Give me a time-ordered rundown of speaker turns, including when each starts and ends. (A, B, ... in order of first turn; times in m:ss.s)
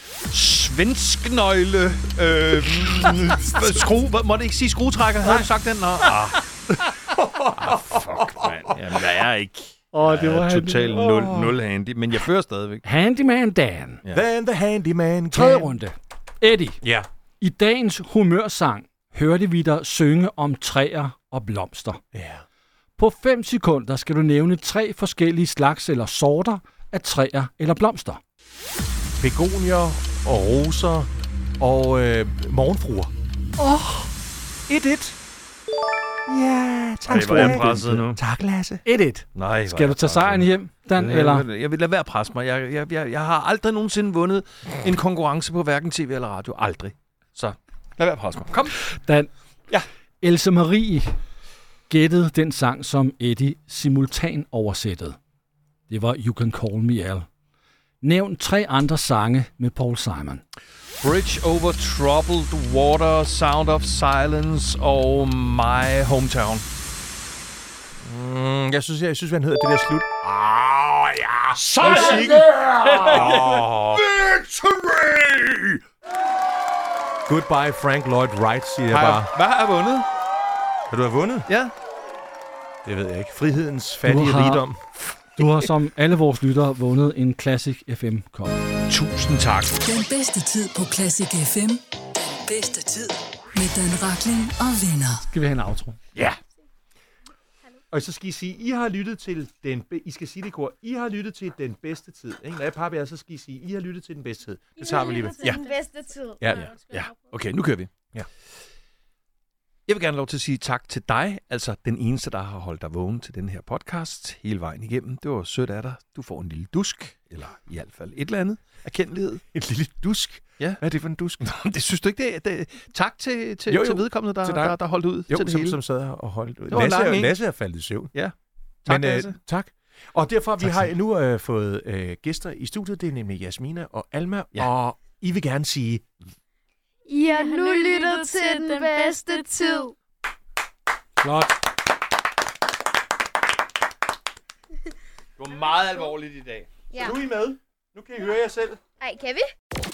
0:00.3-0:06.4 A
0:06.7-0:09.0 B
0:07.6-0:12.8 A
0:09.9-0:11.0 C
0:10.9-0:11.6 B
0:12.8-0:14.0 C
0:14.1-0:15.7 B
0:15.3-0:16.8 C
0:16.8-0:17.1 B
0:17.4-0:22.0 C
0:22.1-0:22.4 B
0:23.0-0:28.2 C
0:29.2-0:31.1 B
0:31.6-0:33.1 B
0:33.6-0:34.1 C
0:34.7-0:35.2 B
0:36.3-0:38.8 B
0:37.1-0:38.2 A
0:38.8-0:41.4 C
0:39.3-0:48.8 A
0:48.8-0:49.3 C
0:50.2-0:51.1 C
0:51.9-0:55.2 C
0:55.9-0:57.3 C
0:58.0-1:00.4 C
1:01.0-1:06.6 A
1:08.0-1:14.0 B
1:11.5-1:15.8 A
1:11.8-1:13.1 C
1:17.2-1:19.3 B
1:18.9-1:20.1 A
1:20.9-1:21.5 B
1:22.8-1:24.8 B
1:24.0-1:24.6 C
1:25.4-1:28.6 C
1:28.9-1:29.8 A
1:29.8-1:35.2 D
1:35.2-1:36.0 C
1:37.9-1:45.6 B
1:44.8-1:46.9 E
1:46.4-1:46.8 B
1:46.9-1:47.9 A
1:49.9-1:59.4 A
1:59.5-2:01.4 B
2:01.4-2:05.8 A
2:03.7-2:08.1 B
2:06.7-2:07.3 A
2:08.8-2:09.4 A
2:08.8-2:16.1 B
2:17.1-2:19.9 E
2:21.2-2:21.5 C
2:25.4-2:26.7 A
2:27.0-2:28.8 B
2:29.0-2:29.5 E